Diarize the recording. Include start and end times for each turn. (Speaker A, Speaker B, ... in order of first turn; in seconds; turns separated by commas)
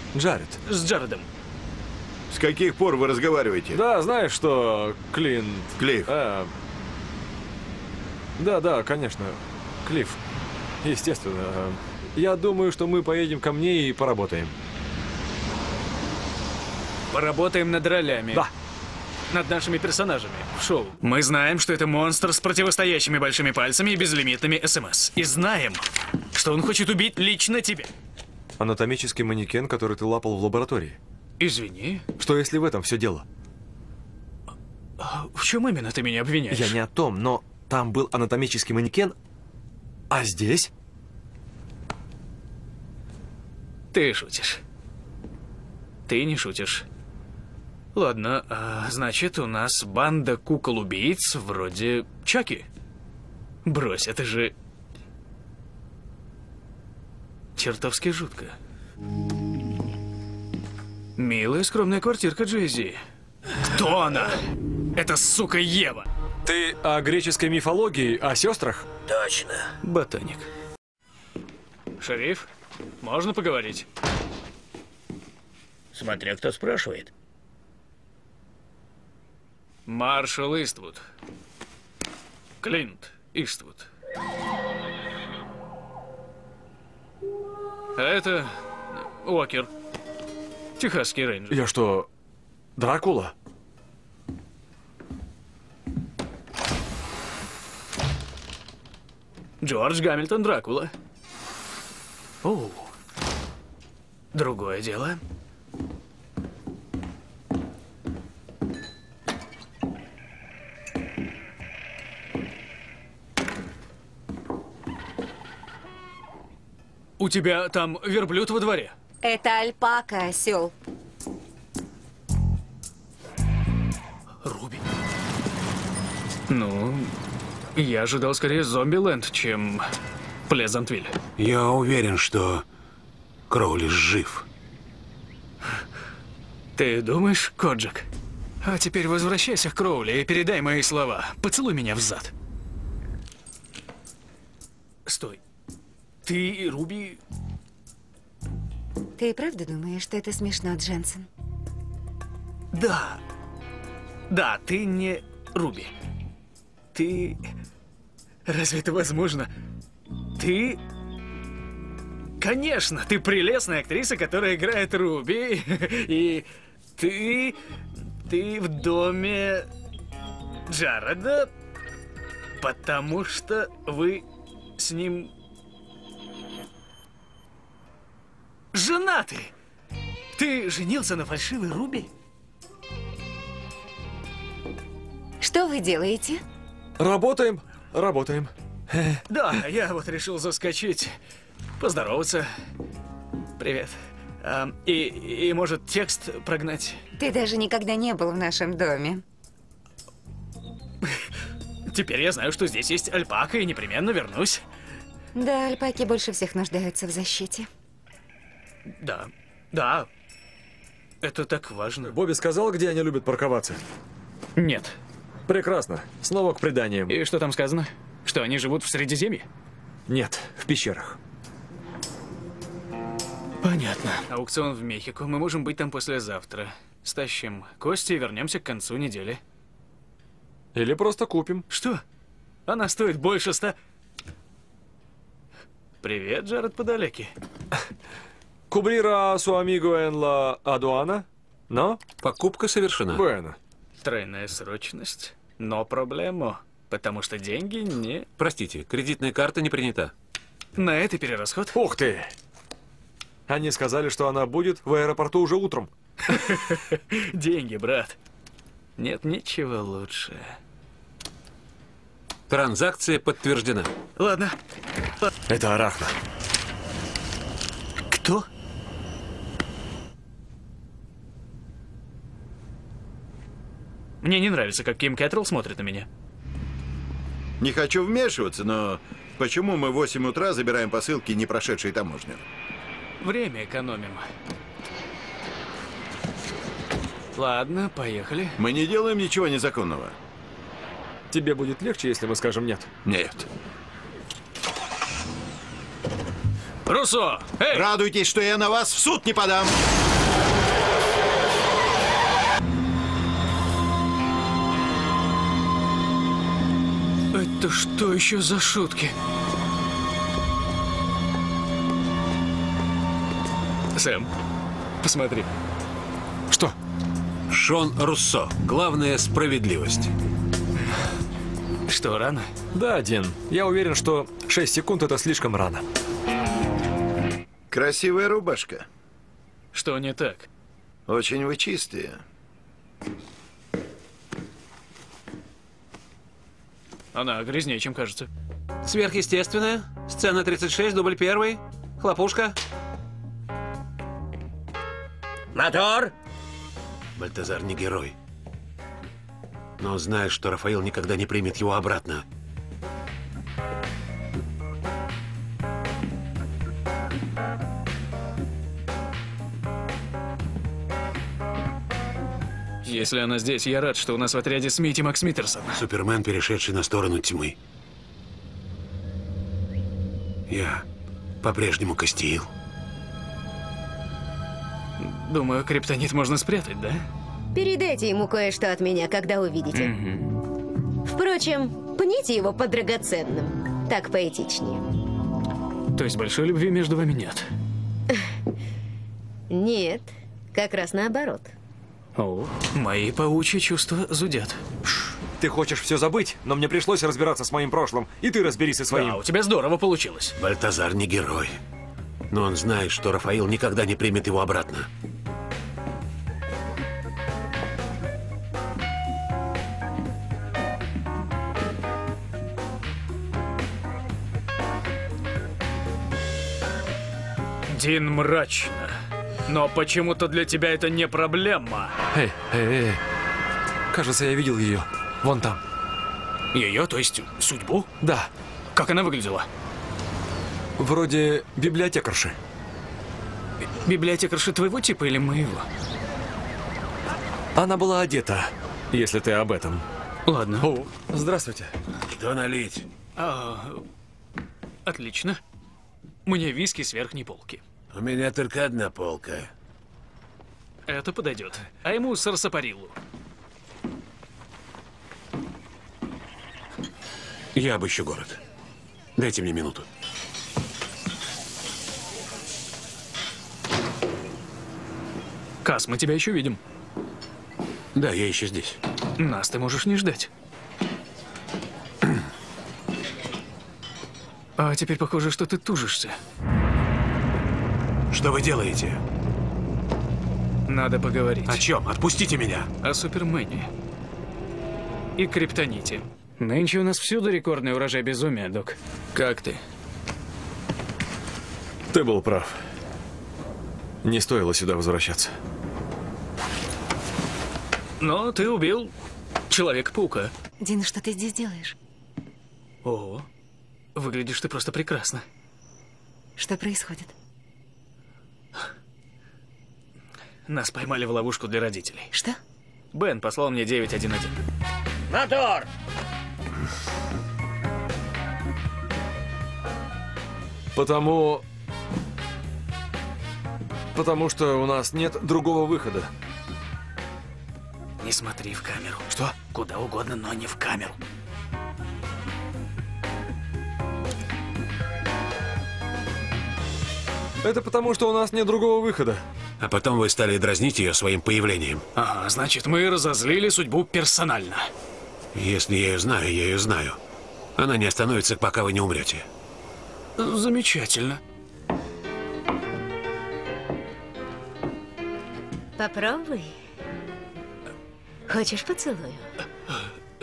Speaker A: 0.1-0.6, Speaker B: 0.6-1.3, Speaker C: 2.3-3.8, Speaker A: 3.7-6.5, Speaker C: 5.8-6.1, Speaker A: 8.4-10.2, Speaker A: 10.8-14.5, Speaker B: 17.1-18.5, Speaker B: 19.3-27.9, Speaker A: 28.6-31.0, Speaker B: 31.4-32.1, Speaker A: 32.2-33.2, Speaker B: 35.0-36.8, Speaker A: 36.5-39.1, Speaker A: 40.1-40.7, Speaker B: 43.9-44.6, Speaker B: 46.1-46.9, Speaker B: 47.9-52.7, Speaker B: 53.6-54.5, Speaker B: 57.6-58.6, Speaker B: 61.2-63.0, Speaker B: 63.6-64.4, Speaker B: 65.0-66.1, Speaker A: 66.5-68.9, Speaker B: 69.8-70.5, Speaker B: 72.0-72.5, Speaker B: 73.0-73.9, Speaker B: 75.9-77.1, Speaker B: 79.9-81.0, Speaker B: 82.6-83.9, Speaker B: 88.0-89.7, Speaker B: 90.8-91.6, Speaker A: 91.5-92.1, Speaker A: 92.8-93.3, Speaker B: 99.6-100.9, Speaker B: 102.4-102.9, Speaker B: 104.3-105.2, Speaker B: 117.2-118.9, Speaker D: 119.2-120.7, Speaker B: 124.4-124.8, Speaker B: 126.5-127.1, Speaker B: 127.8-129.9, Speaker B: 130.5-131.2, Speaker E: 131.4-132.7, Speaker E: 133.5-134.5, Speaker B: 136.8-138.1, Speaker B: 138.6-142.3, Speaker B: 145.1-145.4, Speaker B: 146.2-147.2, Speaker D: 149.2-151.3, Speaker B: 152.7-153.2, Speaker B: 154.3-155.9, Speaker B: 156.9-157.4, Speaker B: 158.5-159.5, Speaker B: 160.4-160.8, Speaker B: 162.4-167.6, Speaker B: 168.2-169.7, Speaker B: 170.7-171.5, Speaker B: 172.6-174.2, Speaker B: 174.8-175.3, Speaker B: 178.7-179.5, Speaker B: 180.3-182.1, Speaker D: 185.4-186.4, Speaker A: 187.0-189.2, Speaker B: 189.3-191.2, Speaker B: 191.8-192.5, Speaker B: 193.6-197.0, Speaker D: 197.2-199.2, Speaker B: 201.9-204.6, Speaker D: 205.3-207.7, Speaker B: 208.9-210.1, Speaker B: 211.2-212.1, Speaker A: 212.0-213.8, Speaker B: 214.6-215.0, Speaker A: 215.5-217.2, Speaker B: 217.1-219.5, Speaker A: 220.1-221.2, Speaker B: 223.6-229.4, Speaker A: 230.8-231.7, Speaker B: 231.7-232.0, Speaker B: 232.7-233.8, Speaker B: 236.0-237.3, Speaker A: 238.7-242.0, Speaker E: 242.2-243.2, Speaker A: 243.1-243.6, Speaker B: 244.0-248.3, Speaker E: 248.4-250.1, Speaker B: 250.8-251.8, Speaker A: 251.7-252.3, Speaker A: 253.5-255.9, Speaker B: 256.3-258.2, Speaker B: 259.0-260.6, Speaker E: 262.5-263.9, Speaker B: 264.2-264.6, Speaker A: 265.5-266.1, Speaker B: 268.1-268.5, Speaker B: 274.2-276.1, Speaker C: 277.6-282.4, Speaker B: 283.2-284.3, Speaker B: 287.4-288.6, Speaker C: 288.6-290.1, Speaker A: 291.3-292.9, Speaker C: 293.1-293.5, Speaker B: 296.9-297.9, Speaker C: 297.7-299.8, Speaker B: 307.3-309.1, Speaker B: 313.9-314.3, Speaker B: 315.0-315.5, Speaker E: 317.5-320.1, Speaker B: 321.9-322.5, Speaker A: 322.7-325.8, Speaker C: 327.7-328.9, Speaker B: 329.7-330.5, Speaker C: 331.1-332.2, Speaker B: 337.1-338.3, Speaker E: 338.9-342.6, Speaker E: 345.6-346.1, Speaker E: 347.2-348.1, Speaker E: 349.8-352.2, Speaker B: 362.8-365.8, Speaker E: 365.8-367.6, Speaker E: 370.5-370.9, Speaker E: 371.4-372.5, Speaker B: 375.0-377.1, Speaker F: 377.5-379.9, Speaker B: 379.7-380.4, Speaker F: 381.1-384.9, Speaker B: 385.9-387.5, Speaker F: 389.5-391.5, Speaker B: 392.2-394.6, Speaker A: 395.4-399.2, Speaker B: 398.9-400.4, Speaker E: 400.4-401.6, Speaker E: 402.3-404.9, Speaker B: 417.7-422.0, Speaker A: 422.1-423.0, Speaker A: 423.9-425.6, Speaker B: 426.5-427.9, Speaker A: 428.0-428.3, Speaker B: 428.7-429.5, Speaker A: 430.8-432.4, Speaker B: 433.7-435.7, Speaker A: 437.6-439.9, Speaker B: 440.3-440.7, Speaker A: 440.6-441.7, Speaker E: 442.1-442.9, Speaker B: 443.2-443.8, Speaker B: 444.9-445.4, Speaker B: 446.2-447.6, Speaker E: 447.9-449.5, Speaker B: 450.9-453.0, Speaker E: 457.6-458.4, Speaker E: 459.2-459.9, Speaker B: 465.6-466.6, Speaker E: 467.9-468.8, Speaker B: 469.2-470.3, Speaker B: 474.6-476.2, Speaker E: 478.1-479.0, Speaker B: 480.7-481.6, Speaker E: 481.5-482.7, Speaker B: 482.8-483.7, Speaker B: 485.2-489.6, Speaker A: 491.9-492.6, Speaker A: 494.0-495.4, Speaker B: 498.0-498.9, Speaker B: 499.5-500.3, Speaker D: 500.6-501.8, Speaker B: 502.8-503.3, Speaker B: 503.9-505.2, Speaker D: 506.4-507.1, Speaker B: 510.5-512.1, Speaker D: 512.1-512.4, Speaker B: 512.9-514.4, Speaker A: 520.8-521.4, Speaker A: 523.9-526.1, Speaker B: 528.0-531.0, Speaker A: 537.4-539.2, Speaker E: 539.6-541.9, Speaker B: 542.0-544.7, Speaker E: 545.3-547.0, Speaker E: 547.6-549.3, Speaker B: 550.2-551.2, Speaker F: 555.8-556.6, Speaker F: 558.3-559.3